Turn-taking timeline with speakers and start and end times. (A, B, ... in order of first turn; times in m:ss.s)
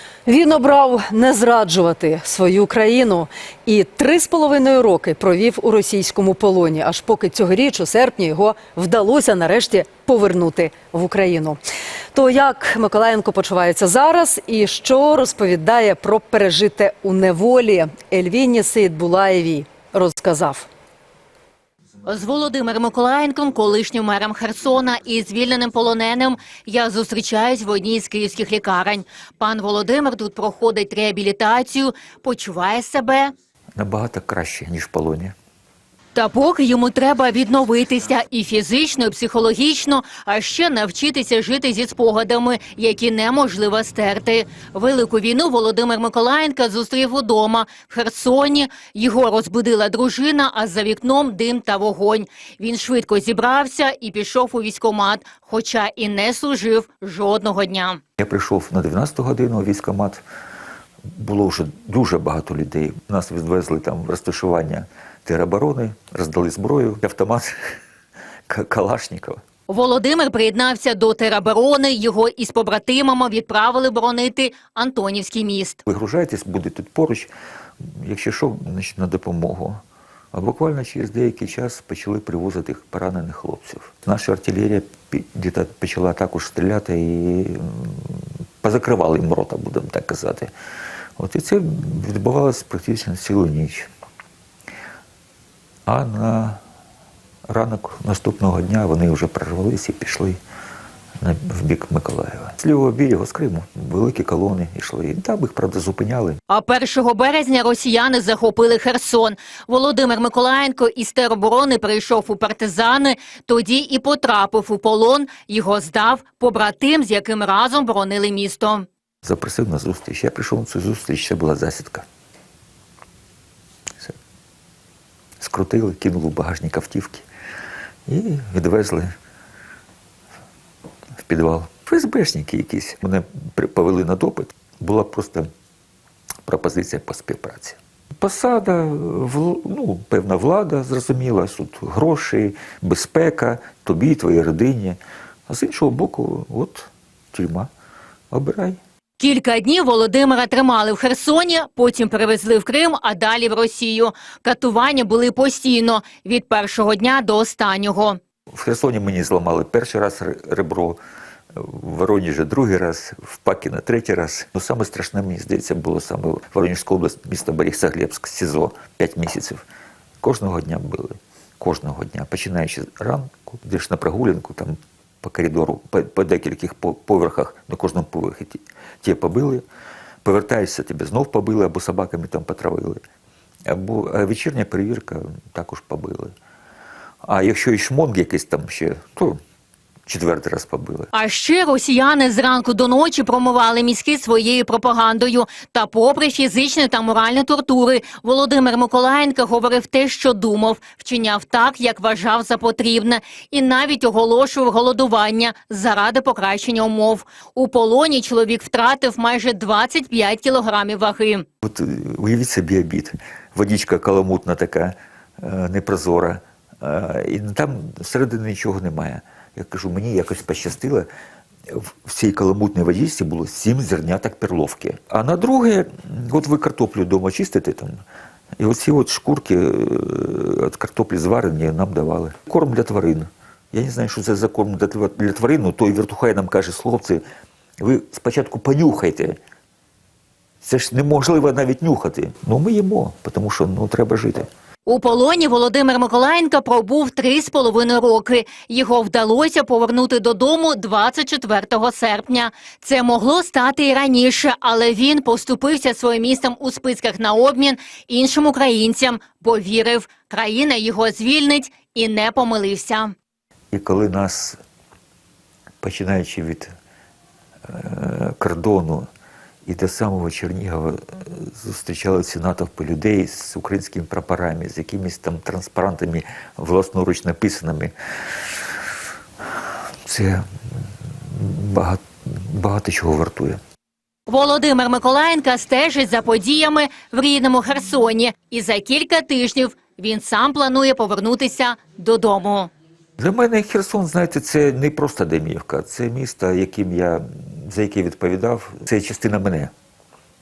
0:00.2-0:11.6 A
0:12.1-0:20.7 A
0:22.0-0:33.3 B
0:33.8-0:35.3 C
0:36.1-0:58.0 B
0:58.2-1:00.2 C
1:01.1-1:07.5 C
1:08.5-1:09.4 C
1:09.7-1:15.8 B
1:15.8-1:17.3 C
1:17.9-1:19.8 C
1:20.3-1:30.5 C
1:31.2-1:33.9 C
1:35.9-1:36.6 C
1:37.5-1:40.4 C
1:41.2-1:46.4 C
1:46.5-1:58.9 B
1:59.2-2:02.0 C
2:05.4-2:07.2 C
2:08.1-2:09.1 C
2:11.2-2:15.5 C
2:16.4-2:27.7 C
2:28.3-2:28.8 C
2:29.2-2:38.2 B
2:38.5-2:41.0 C
2:41.5-2:49.6 C
2:50.2-2:59.6 C
3:00.2-3:03.0 C
3:03.7-3:06.3 C
3:07.2-3:09.4 C
3:10.1-3:11.1 C
3:11.1-3:31.4 B
3:31.6-3:41.1 C
3:41.7-3:48.0 C
3:48.6-3:57.2 C
3:57.8-3:59.4 C
4:00.6-4:04.5 C
4:04.8-4:23.1 B
4:23.7-4:24.6 C
4:25.8-4:26.7 C
4:27.7-4:29.1 C
4:29.6-4:37.9 C
4:40.0-4:40.4 C
4:41.3-4:43.6 C
4:44.3-4:52.7 B
4:53.2-4:59.7 C